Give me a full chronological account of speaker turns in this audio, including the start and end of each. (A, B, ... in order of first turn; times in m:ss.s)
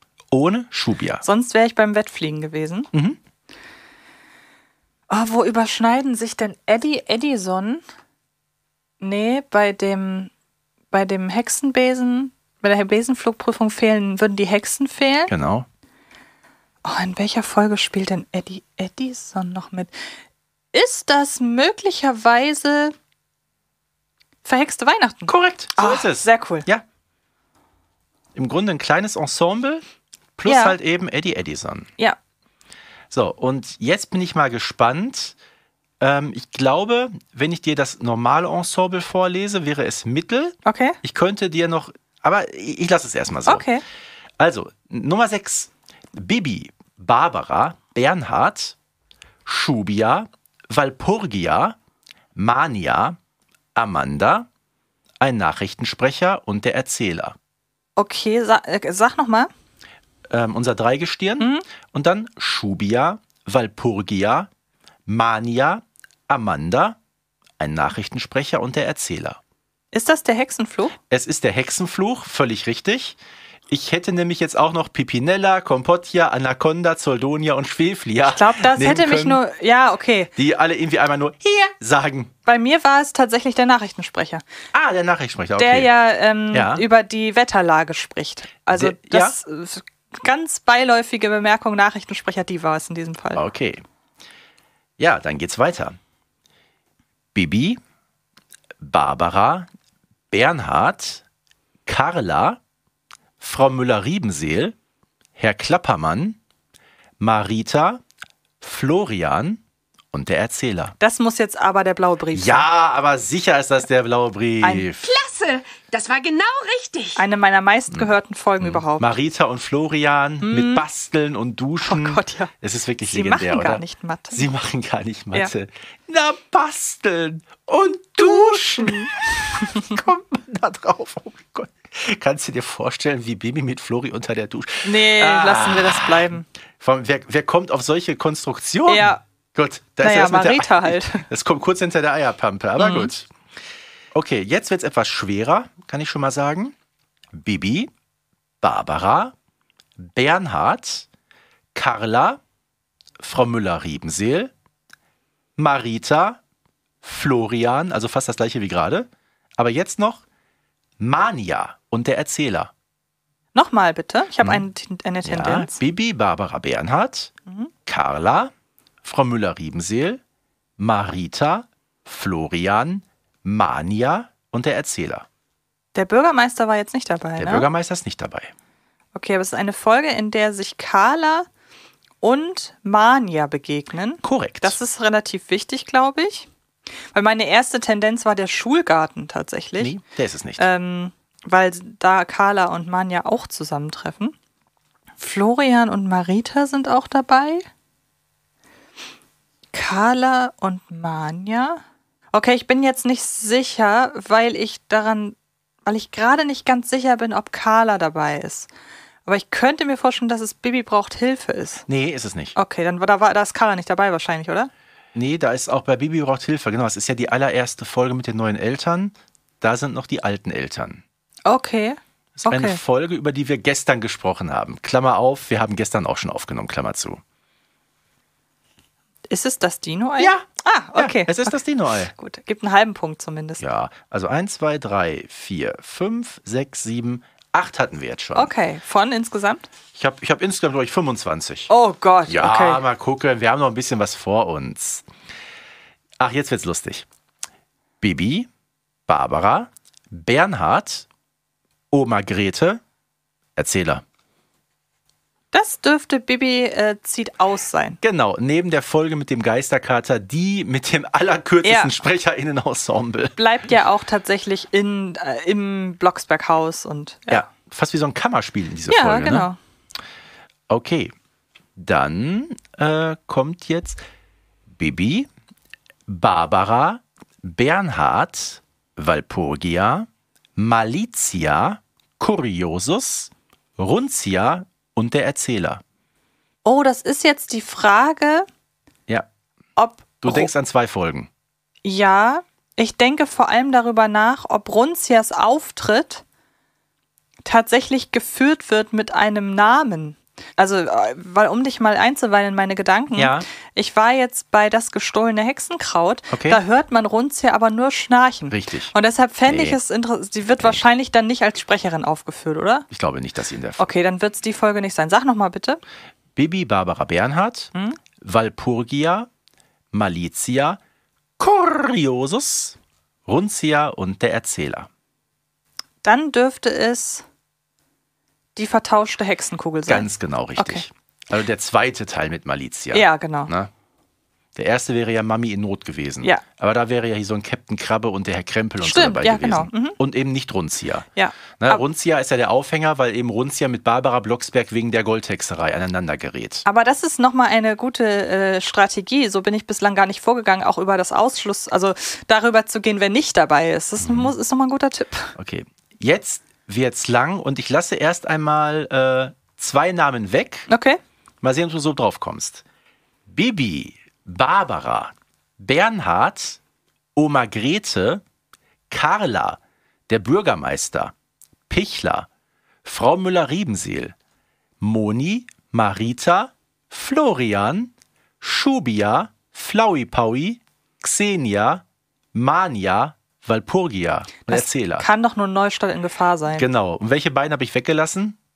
0:00.3-0:01.2 A
0:01.2-0:02.9 B
0:02.9-0:03.2 A
0:05.1-0:07.8 B
0:09.0-0:10.3 B
0:10.9-0:15.3 B
0:15.3-0:15.7 A
0:16.8-0:20.0 B
0:20.7-0:23.0 B
0:24.4-0:26.7 B
0:25.3-0:26.8 A
0:28.4-0:29.8 A
0:30.4-0:31.9 A
0:30.4-0:30.8 B
0:33.1-0:35.4 A
0:36.0-0:43.7 A
0:40.6-0:41.0 B
0:43.5-0:43.8 B
0:44.4-0:48.8 A
0:49.5-0:51.8 A
0:52.4-0:53.2 A
0:53.8-0:54.5 A
0:55.2-0:57.4 A
0:58.0-0:59.5 B
1:00.3-1:04.5 A
1:01.4-1:01.6 B
1:05.1-1:07.0 A
1:07.6-1:09.4 A
1:09.9-1:11.0 B
1:11.1-1:13.2 A
1:13.7-1:19.4 A
1:18.3-1:20.3 B
1:20.4-1:22.3 A
1:22.5-1:24.4 B
1:24.7-1:25.9 A
1:25.6-1:33.4 B
1:26.5-1:26.8 A
1:28.7-1:29.4 A
1:33.4-1:33.8 A
1:35.0-1:36.0 A
1:37.3-1:37.8 A
1:38.8-1:39.7 A
1:40.3-1:41.2 A
1:41.9-1:42.6 A
1:43.4-1:44.8 A
1:45.4-1:46.4 A
1:47.2-1:48.0 A
1:48.6-1:49.6 A
1:50.1-1:51.0 A
1:51.0-1:52.7 B
1:52.3-1:55.0 A
1:54.6-1:54.9 B
1:55.0-1:57.2 C
1:57.2-1:59.1 B
1:57.9-2:23.3 A
2:00.4-2:00.8 B
2:01.8-2:02.5 B
2:03.0-2:04.4 B
2:08.2-2:09.8 B
2:14.8-2:16.5 B
2:18.9-2:19.2 B
2:20.0-2:21.2 B
2:22.8-2:23.1 B
2:24.1-2:26.8 A
2:27.3-2:27.9 A
2:28.6-2:29.3 A
2:30.0-2:31.1 A
2:31.7-2:32.4 A
2:33.2-2:34.5 A
2:35.6-2:36.4 A
2:37.0-2:40.2 A
2:41.0-2:42.7 A
2:43.6-2:45.8 B
2:45.2-2:47.3 A
2:47.9-2:48.5 A
2:49.0-2:50.2 A
2:50.8-2:55.3 A
2:56.0-2:57.7 B
2:57.4-2:58.5 A
2:59.2-3:01.5 B
3:02.2-3:06.5 B
3:04.2-3:04.8 A
3:07.1-3:10.0 B
3:09.8-3:10.7 A
3:10.6-3:14.4 B
3:15.2-3:17.7 B
3:19.7-3:21.8 B
3:22.3-3:28.7 B
3:29.3-3:31.8 B
3:31.9-3:32.6 A
3:32.6-3:34.7 B
3:35.2-3:41.0 A
3:41.5-3:42.8 B
3:42.5-3:47.2 A
3:49.3-3:51.6 B
3:50.2-3:52.1 A
3:52.1-3:53.6 B
3:53.6-3:58.5 A
3:58.4-3:59.6 B
4:00.0-4:01.7 A
4:01.7-4:02.8 B
4:02.3-4:05.1 A
4:06.2-4:07.1 A
4:08.0-4:08.5 A
4:09.1-4:11.1 A
4:11.9-4:12.8 A
4:13.6-4:14.0 A
4:15.5-4:18.0 B
4:18.0-4:23.4 A
4:21.6-4:21.9 B
4:23.4-4:27.5 B
4:27.3-4:29.5 A
4:28.9-4:29.6 B
4:30.7-4:31.1 A
4:31.8-4:34.0 A
4:34.7-4:35.3 A
4:36.1-4:45.8 A
4:46.6-4:48.5 B
4:49.8-4:50.5 B
4:50.2-4:51.3 A
4:51.8-4:56.2 B
4:57.4-5:12.9 B
5:03.2-5:03.5 A
5:06.3-5:06.6 A
5:08.5-5:08.9 A
5:09.5-5:09.8 A
5:12.9-5:13.9 A
5:13.8-5:15.8 B
5:16.4-5:19.3 A
5:19.9-5:20.8 A
5:21.4-5:24.9 A
5:26.0-5:27.2 B
5:28.6-5:30.9 B
5:29.9-5:33.7 A
5:32.9-5:33.5 B
5:34.6-5:46.6 A
5:38.8-5:40.0 B
5:41.2-5:41.8 B
5:46.6-5:55.3 B
5:54.0-5:54.3 A
5:55.4-6:00.7 A
6:00.7-6:01.0 B
6:01.4-6:02.6 A
6:03.3-6:06.6 A
6:07.2-6:08.2 A
6:08.9-6:11.1 A
6:11.7-6:12.3 A
6:12.8-6:14.2 A
6:14.8-6:25.1 A
6:24.5-6:26.7 B
6:26.6-6:28.4 A